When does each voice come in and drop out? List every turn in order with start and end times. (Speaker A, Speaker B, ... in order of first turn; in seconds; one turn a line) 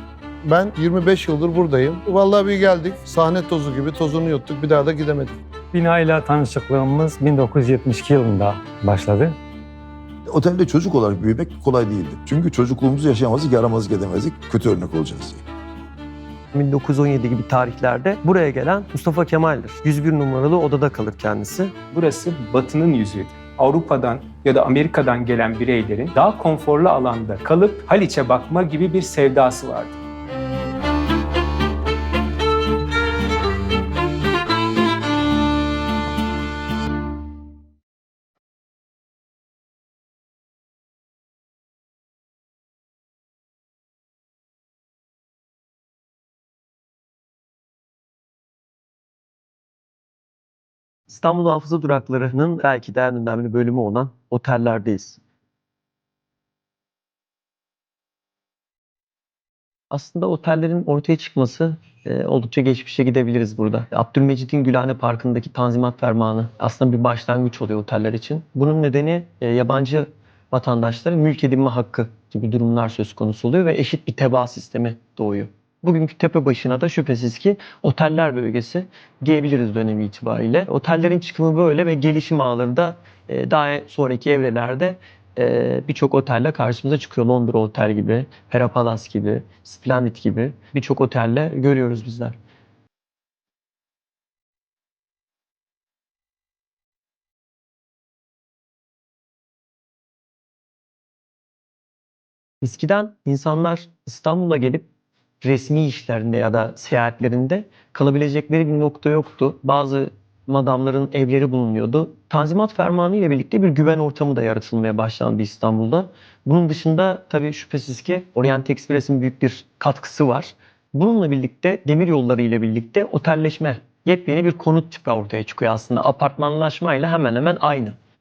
Speaker A: 0.5-5.4
Speaker B: 5.7-9.4
Speaker C: 10.3-15.4
Speaker D: 16.5-21.7
Speaker E: 21.9-30.0
Speaker D: 51.1-55.2
Speaker D: 59.9-92.4
Speaker D: 102.6-104.9
Speaker D: 105.4-128.0